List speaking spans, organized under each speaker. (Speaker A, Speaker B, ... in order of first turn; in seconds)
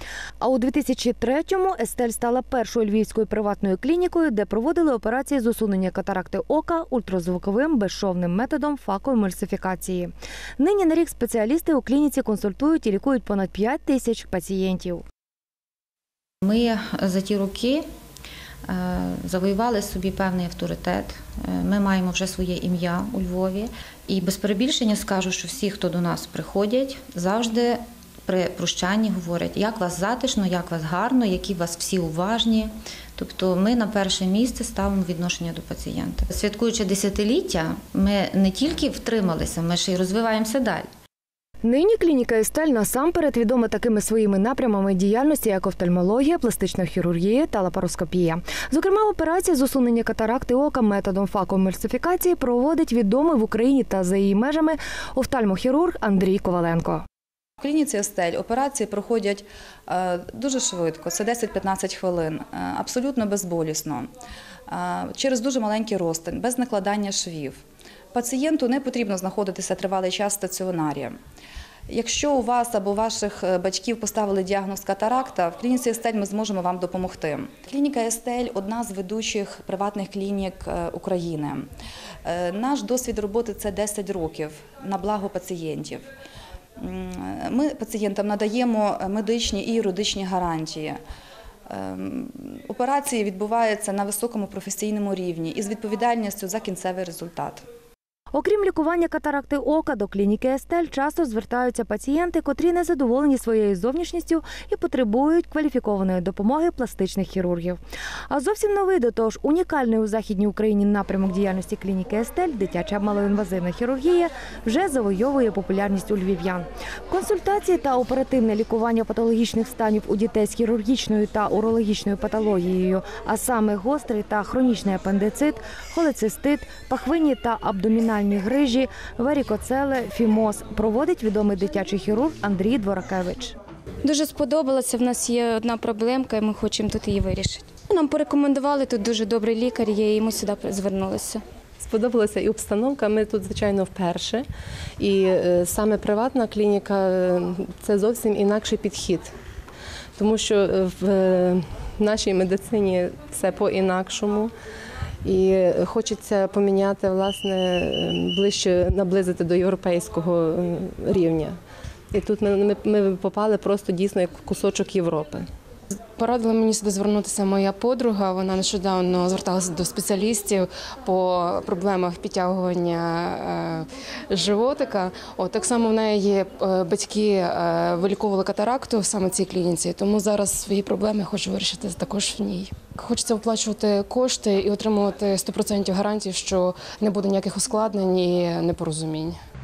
Speaker A: 0.4-15.0, 41.6-57.0, 98.3-107.8, 108.3-133.5
Speaker B: 16.4-17.8, 18.6-40.9
Speaker C: 57.6-64.1, 64.7-67.6, 68.1-71.2, 71.9-81.7, 82.2-86.1, 86.8-91.0, 91.7-97.6
Speaker D: 134.0-141.4
Speaker E: 141.8-144.4, 145.0-149.3, 150.2-154.5, 155.2-161.6, 162.1-165.4
Speaker F: 165.9-189.4